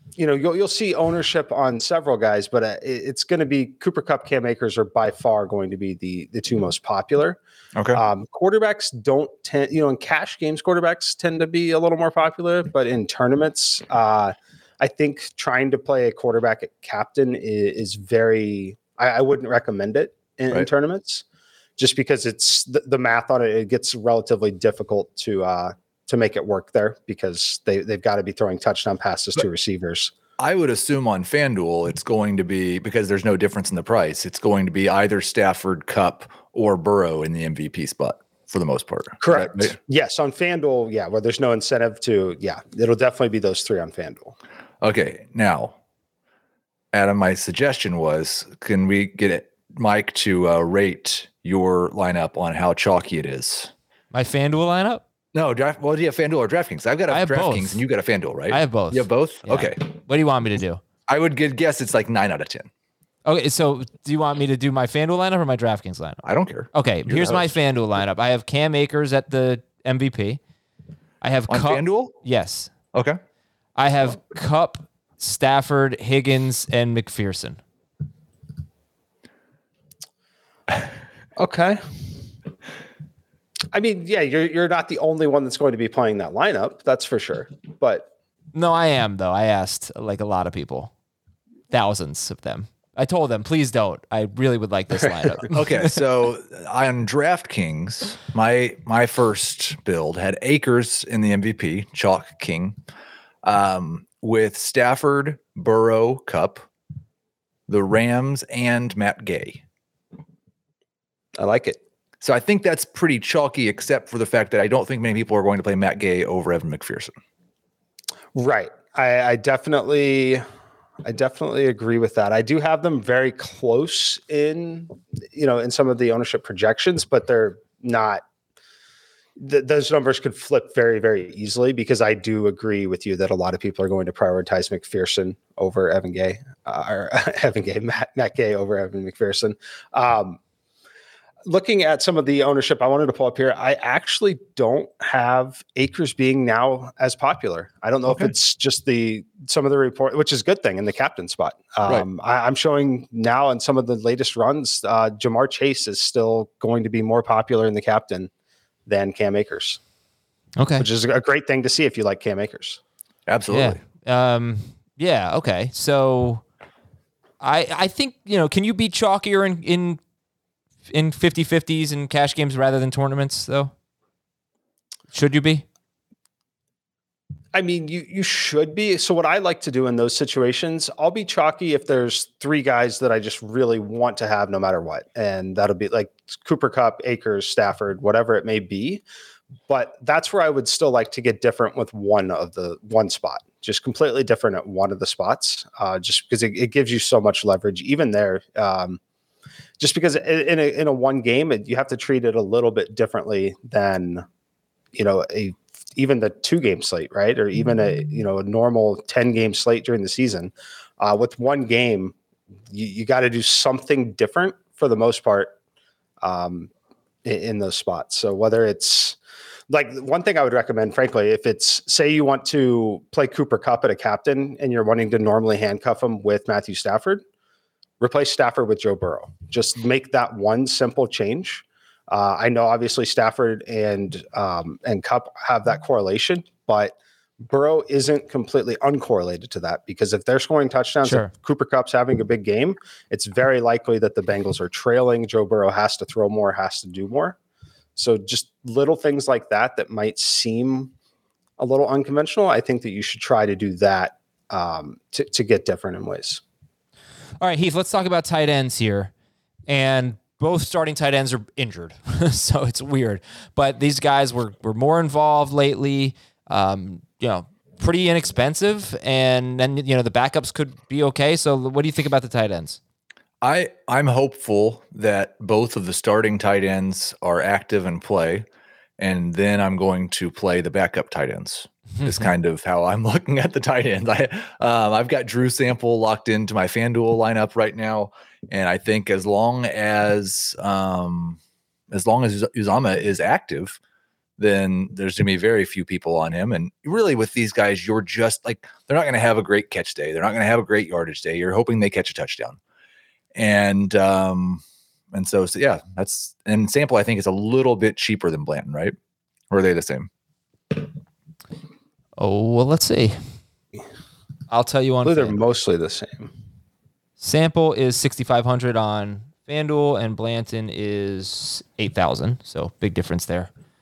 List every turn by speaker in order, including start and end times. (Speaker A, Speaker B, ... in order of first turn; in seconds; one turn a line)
Speaker A: 0.1-7.4
Speaker B: 7.8-8.0
Speaker A: 7.9-21.2
Speaker A: 21.8-30.1
Speaker B: 30.4-39.8
Speaker A: 39.2-44.4
Speaker B: 44.8-45.8
Speaker B: 46.9-53.7
Speaker C: 54.1-55.0
Speaker B: 55.3-59.8
Speaker C: 57.1-57.8
Speaker C: 58.5-60.8
Speaker B: 61.1-62.7
Speaker C: 63.2-66.2
Speaker B: 66.2-67.6
Speaker C: 66.7-70.4
Speaker C: 71.2-72.7
Speaker B: 71.5-72.2
Speaker B: 72.9-73.2
Speaker C: 73.8-77.6
Speaker A: 81.4-81.8
Speaker A: 83.7-88.1
Speaker C: 88.5-90.9
Speaker C: 91.7-95.9
Speaker B: 95.5-102.8
Speaker B: 103.4-106.7
Speaker B: 107.7-109.6
Speaker A: 111.4-111.8
Speaker B: 112.2-117.1
Speaker A: 118.3-120.4
Speaker A: 121.0-128.2
Speaker A: 129.4-140.4
Speaker A: 141.4-158.3
Speaker A: 158.9-159.8
Speaker C: 160.6-160.8
Speaker A: 160.8-162.8
Speaker B: 163.3-163.8
Speaker C: 163.5-166.4
Speaker C: 167.4-170.0
Speaker C: 170.9-173.7
Speaker C: 175.1-175.7
Speaker A: 177.5-189.0
Speaker A: 189.7-199.0
Speaker A: 199.8-204.2
Speaker A: 204.9-212.1
Speaker A: 212.7-215.5
Speaker A: 216.2-216.7
Speaker A: 217.2-219.2
Speaker A: 219.7-227.2
Speaker A: 228.0-247.3
Speaker C: 241.0-241.3
Speaker A: 247.9-250.9
Speaker A: 251.6-256.4
Speaker C: 257.4-259.1
Speaker C: 259.7-272.8
Speaker B: 273.4-278.4
Speaker B: 279.0-291.4
Speaker C: 282.0-282.3
Speaker B: 291.9-293.8
Speaker B: 294.4-302.6
Speaker B: 303.3-308.9
Speaker B: 309.5-310.1
Speaker C: 312.2-313.2
Speaker C: 314.5-315.4
Speaker A: 315.0-316.3
Speaker C: 317.2-323.5